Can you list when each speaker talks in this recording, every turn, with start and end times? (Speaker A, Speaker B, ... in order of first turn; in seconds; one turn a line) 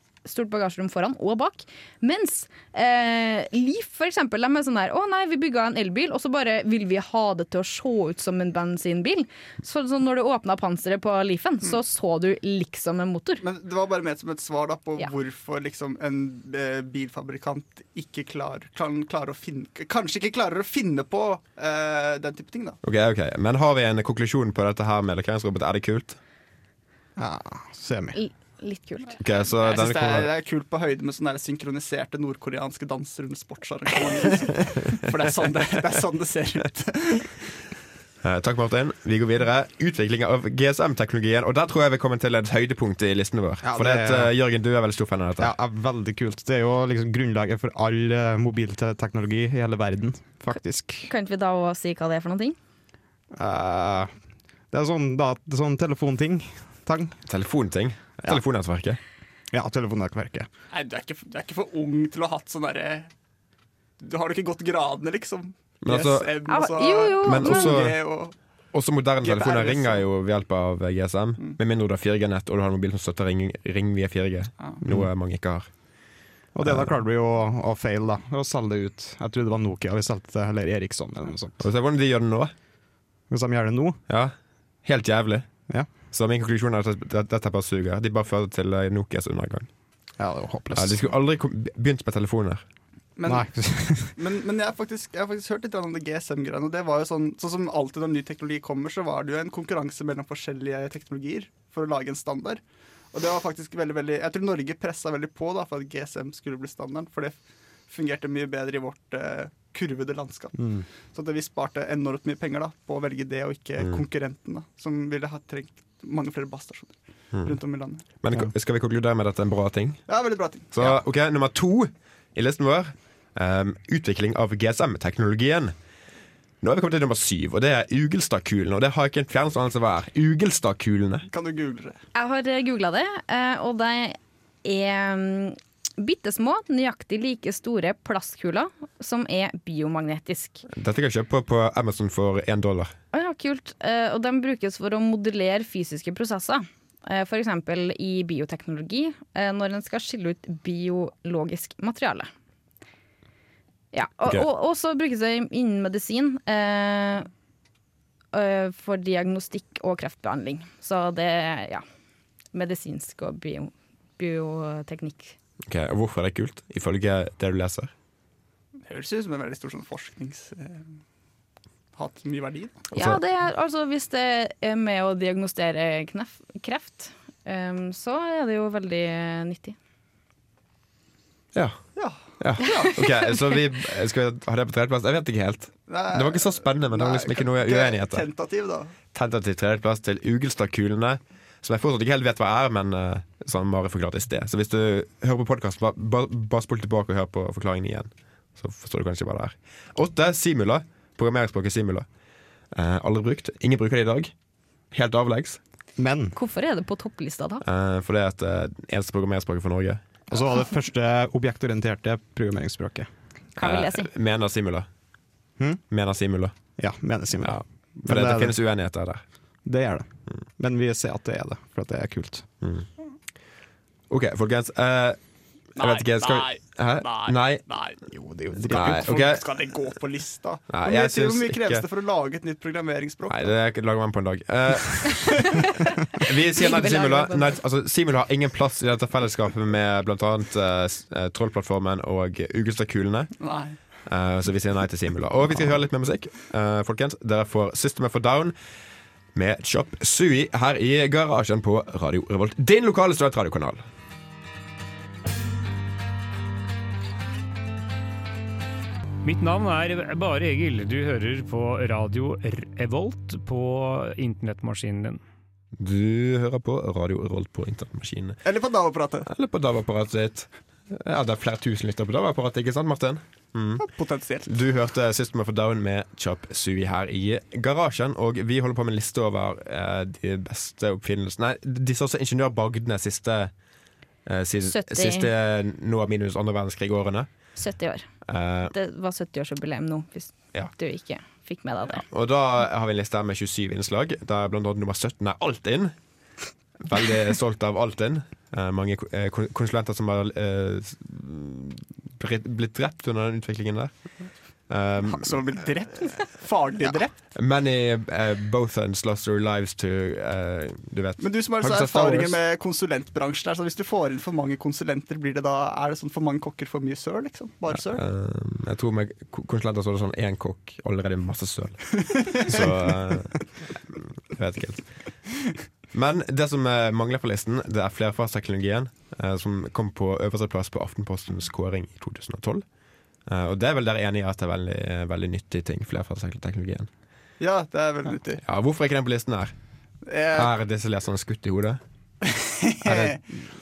Speaker A: 0.2-13.4
Speaker B: 13.4-22.8
Speaker C: 22.8-26.2
Speaker D: 27.2-28.2
Speaker A: 28.1-29.2
Speaker C: 29.2-30.3
Speaker B: 29.6-37.5
Speaker C: 38.2-45.5
Speaker D: 43.6-44.3
Speaker D: 45.4-51.1
Speaker A: 51.0-52.6
Speaker D: 53.3-54.1
Speaker D: 54.7-57.2
Speaker C: 57.3-59.0
Speaker D: 59.5-60.5
Speaker B: 60.7-63.1
Speaker B: 64.0-68.3
Speaker C: 65.8-66.3
Speaker A: 66.5-67.8
Speaker C: 67.2-68.0
Speaker C: 68.7-75.7
Speaker B: 69.2-70.1
Speaker D: 76.5-81.6
Speaker C: 81.6-82.5
Speaker D: 83.3-84.0
Speaker C: 84.1-85.5
Speaker C: 86.1-89.7
Speaker D: 90.2-91.0
Speaker C: 90.7-92.6
Speaker B: 93.2-102.6
Speaker D: 93.2-94.1
Speaker B: 103.1-107.3
Speaker B: 107.9-118.0
Speaker D: 110.6-110.8
Speaker C: 118.2-120.0
Speaker B: 120.1-121.0
Speaker C: 120.7-125.7
Speaker C: 126.6-131.3
Speaker B: 131.3-132.0
Speaker A: 132.1-140.6
Speaker C: 140.7-142.9
Speaker A: 143.1-152.3
Speaker A: 153.9-157.3
Speaker A: 158.3-161.8
Speaker A: 162.5-165.3
Speaker C: 165.7-167.9
Speaker B: 168.8-170.9
Speaker B: 171.9-172.9
Speaker C: 172.9-173.2
Speaker A: 172.9-179.8
Speaker C: 181.5-181.8
Speaker B: 181.9-183.0
Speaker C: 182.4-188.2
Speaker B: 185.9-188.9
Speaker C: 189.1-202.1
Speaker C: 202.7-204.3
Speaker C: 204.9-205.6
Speaker D: 206.0-206.3
Speaker A: 206.3-207.6
Speaker C: 207.6-210.0
Speaker D: 210.3-213.1
Speaker A: 213.6-214.1
Speaker C: 213.6-214.9
Speaker C: 215.9-216.6
Speaker D: 216.8-218.6
Speaker C: 217.4-219.2
Speaker D: 219.6-222.4
Speaker C: 222.6-222.9
Speaker C: 224.1-225.2
Speaker C: 225.8-227.6
Speaker B: 225.8-228.0
Speaker D: 228.1-229.1
Speaker B: 228.6-233.5
Speaker C: 228.7-229.4
Speaker C: 230.7-231.8
Speaker C: 233.3-243.3
Speaker A: 236.2-237.6
Speaker B: 243.4-243.8
Speaker C: 244.1-248.5
Speaker C: 249.3-253.8
Speaker E: 259.2-265.2
Speaker C: 265.8-268.4
Speaker B: 268.4-269.3
Speaker C: 269.3-273.9
Speaker B: 273.8-274.5
Speaker C: 274.5-283.5
Speaker C: 284.2-287.3
Speaker A: 284.6-285.3
Speaker A: 287.6-288.1
Speaker C: 288.3-288.7
Speaker A: 288.7-292.0
Speaker C: 292.1-295.9
Speaker C: 296.8-303.9
Speaker C: 304.7-305.4
Speaker B: 305.0-307.1
Speaker C: 307.3-312.4
Speaker B: 311.2-318.0
Speaker C: 317.7-325.0
Speaker C: 325.9-332.6
Speaker C: 333.3-336.9
Speaker B: 337.4-338.4
Speaker C: 338.4-339.5
Speaker B: 340.1-340.5
Speaker C: 340.3-341.8
Speaker B: 342.2-343.2
Speaker C: 342.8-343.2